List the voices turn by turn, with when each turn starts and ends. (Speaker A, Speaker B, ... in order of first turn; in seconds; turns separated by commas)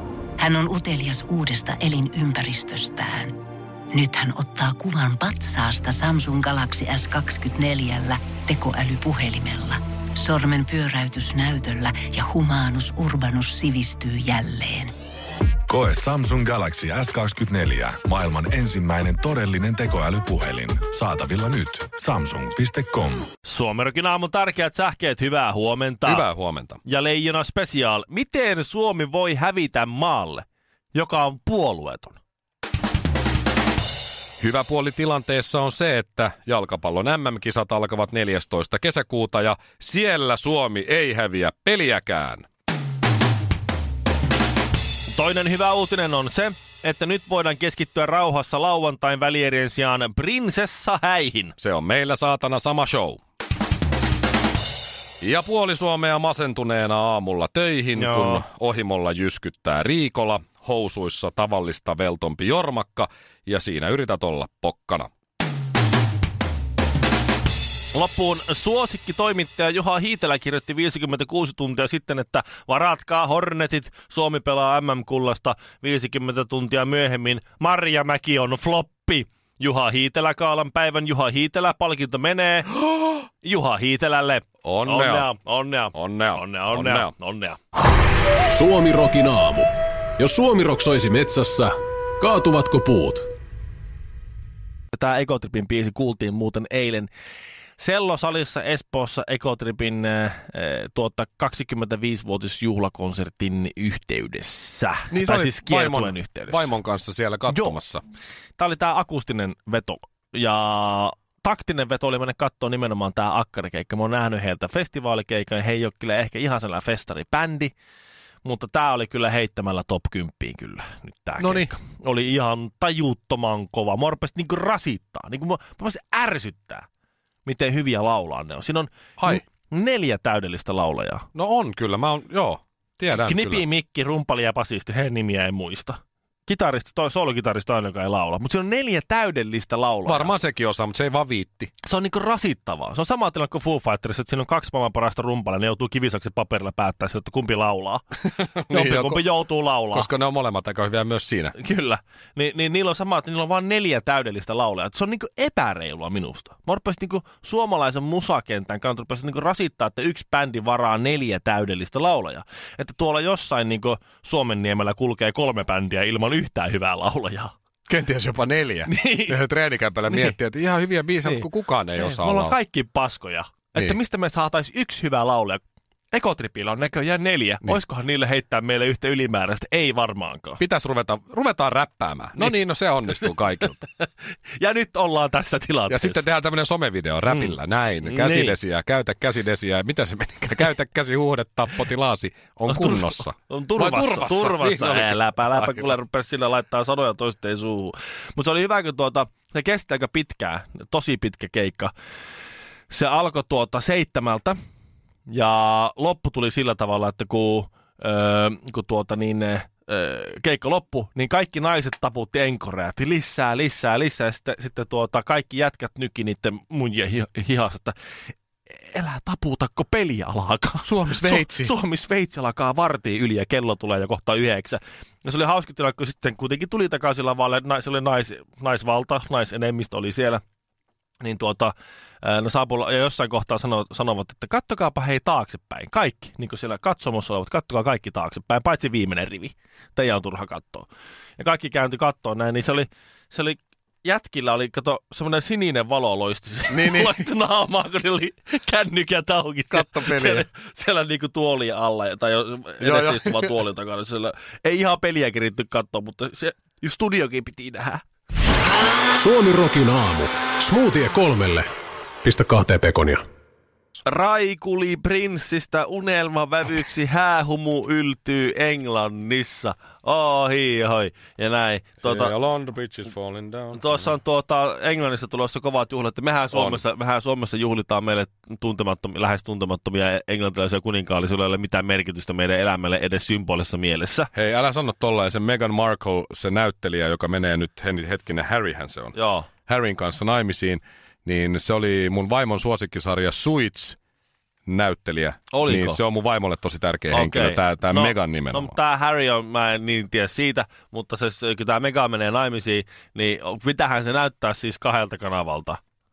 Speaker A: 0.4-3.4, Speaker A: 3.9-14.9, Speaker B: 15.7-23.3, Speaker C: 23.4-26.3, Speaker D: 26.1-26.8, Speaker C: 26.9-32.2, Speaker D: 34.4-42.5, Speaker C: 45.1-51.5, Speaker D: 51.6-53.2, Speaker D: 55.2-65.1, Speaker C: 58.0-58.4, Speaker C: 67.9-82.8, Speaker C: 83.4-87.6, Speaker D: 84.6-85.3, Speaker D: 85.9-87.1, Speaker E: 88.5-93.2, Speaker C: 94.9-97.1, Speaker C: 97.8-106.7, Speaker D: 105.1-108.0, Speaker C: 107.5-107.8, Speaker C: 108.6-117.7, Speaker C: 118.5-126.8, Speaker D: 121.4-121.7, Speaker C: 127.5-131.3, Speaker D: 131.3-133.6, Speaker C: 133.1-140.3, Speaker D: 140.1-141.7, Speaker C: 141.8-148.0, Speaker D: 148.2-149.2, Speaker C: 148.7-150.1, Speaker D: 149.9-151.6, Speaker C: 151.6-167.5, Speaker D: 167.9-172.6, Speaker C: 168.9-169.4, Speaker C: 170.1-170.4, Speaker C: 171.2-175.6, Speaker C: 176.1-180.6, Speaker D: 180.6-183.8, Speaker C: 182.4-186.2, Speaker D: 185.9-195.9, Speaker C: 187.3-188.5, Speaker C: 192.7-201.9, Speaker C: 202.9-204.6, Speaker C: 205.3-218.0, Speaker C: 218.8-230.4, Speaker D: 220.8-221.7, Speaker C: 231.2-240.9, Speaker C: 241.4-258.0, Speaker D: 246.7-247.2, Speaker D: 249.7-250.4, Speaker D: 252.8-253.5, Speaker E: 259.2-261.7, Speaker E: 262.2-263.2, Speaker C: 264.1-272.3, Speaker D: 272.0-274.1, Speaker C: 273.7-284.3, Speaker D: 276.5-276.8, Speaker D: 284.3-294.0, Speaker C: 289.1-289.5, Speaker D: 294.7-298.8, Speaker C: 295.5-296.0, Speaker C: 297.1-305.8